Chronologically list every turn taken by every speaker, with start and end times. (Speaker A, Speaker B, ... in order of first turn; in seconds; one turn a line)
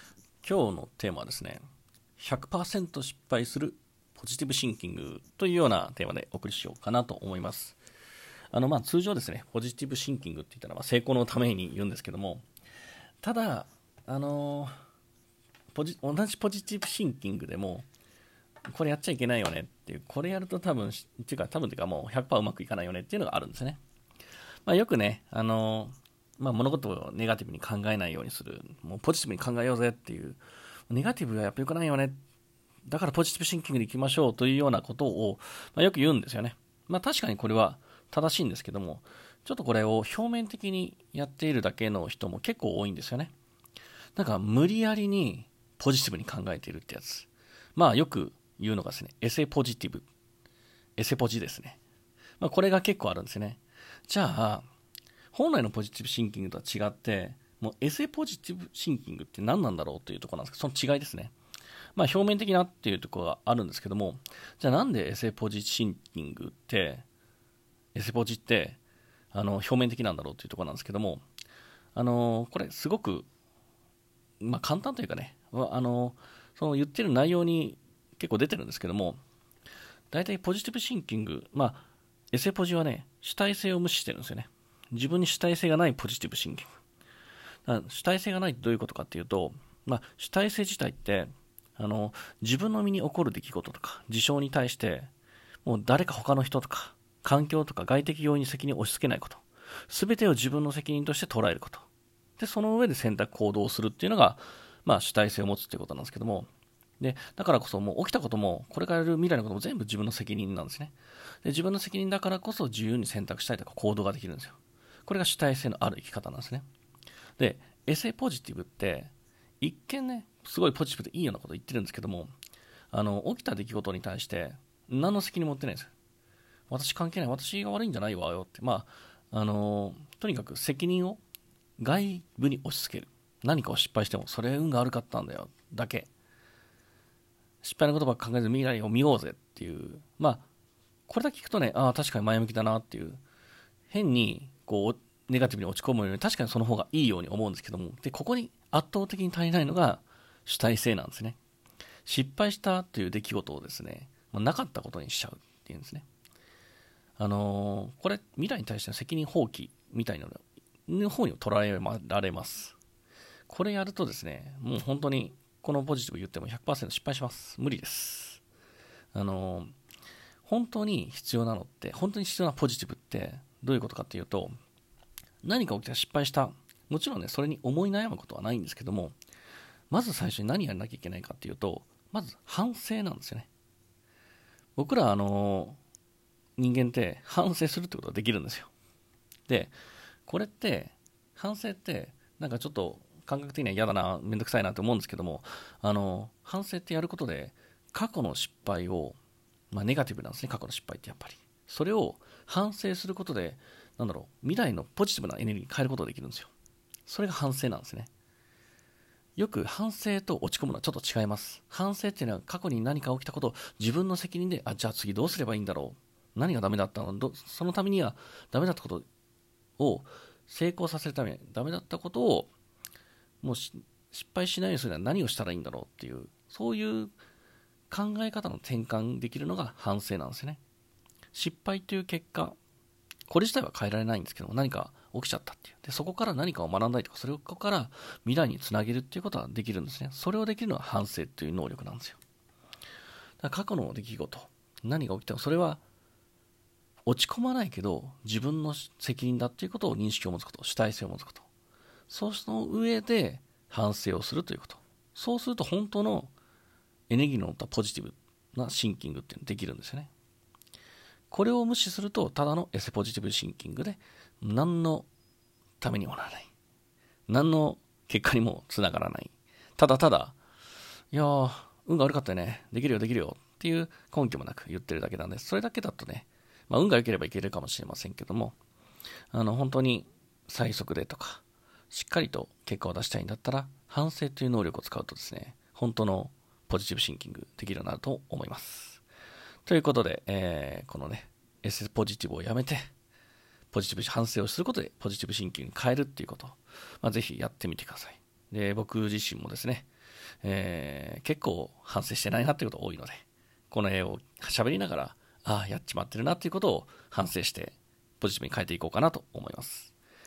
Speaker A: 0.4-1.6
Speaker A: 2.2-7.8
Speaker A: 8.5-12.4
Speaker A: 13.2-14.7
Speaker A: 15.7-17.9
Speaker A: 18.7-23.8
Speaker A: 24.6-32.1
Speaker A: 32.9-43.3
Speaker A: 44.1-50.1
Speaker A: 51.0-51.8
Speaker A: 52.4-54.6
Speaker A: 55.3-61.3
Speaker A: 62.0-67.0
Speaker A: 67.9-68.8
Speaker A: 69.3-71.2
Speaker A: 71.9-73.3
Speaker A: 74.4-79.2
Speaker A: 80.1-86.7
Speaker A: 87.7-95.1
Speaker A: 95.6-101.9
Speaker A: 102.4-106.5
Speaker A: 107.0-116.6
Speaker A: 117.4-122.3
Speaker A: 122.9-125.9
Speaker A: 126.7-131.2
Speaker A: 131.8-136.1
Speaker A: 137.6-140.5
Speaker A: 141.1-143.2
Speaker A: 143.9-151.4
Speaker A: 152.0-156.1
Speaker A: 157.2-162.8
Speaker A: 163.5-168.4
Speaker A: 169.1-169.7
Speaker A: 170.4-174.5
Speaker A: 175.4-179.1
Speaker A: 179.9-183.5
Speaker A: 184.8-185.8
Speaker A: 186.6-188.7
Speaker A: 189.5-189.7
Speaker A: 190.3-199.2
Speaker A: 199.7-206.5
Speaker A: 207.1-208.1
Speaker A: 209.4-219.0
Speaker A: 219.8-222.5
Speaker A: 223.4-227.1
Speaker A: 227.9-230.6
Speaker A: 231.3-232.6
Speaker A: 233.3-242.2
Speaker A: 243.4-245.8
Speaker A: 247.1-251.5
Speaker A: 252.1-256.3
Speaker A: 257.1-260.1
Speaker A: 261.3-265.1
Speaker A: 265.8-266.5
Speaker A: 267.3-270.4
Speaker A: 271.1-278.6
Speaker A: 279.3-289.0
Speaker A: 289.6-292.9
Speaker A: 293.7-299.9
Speaker A: 300.4-309.9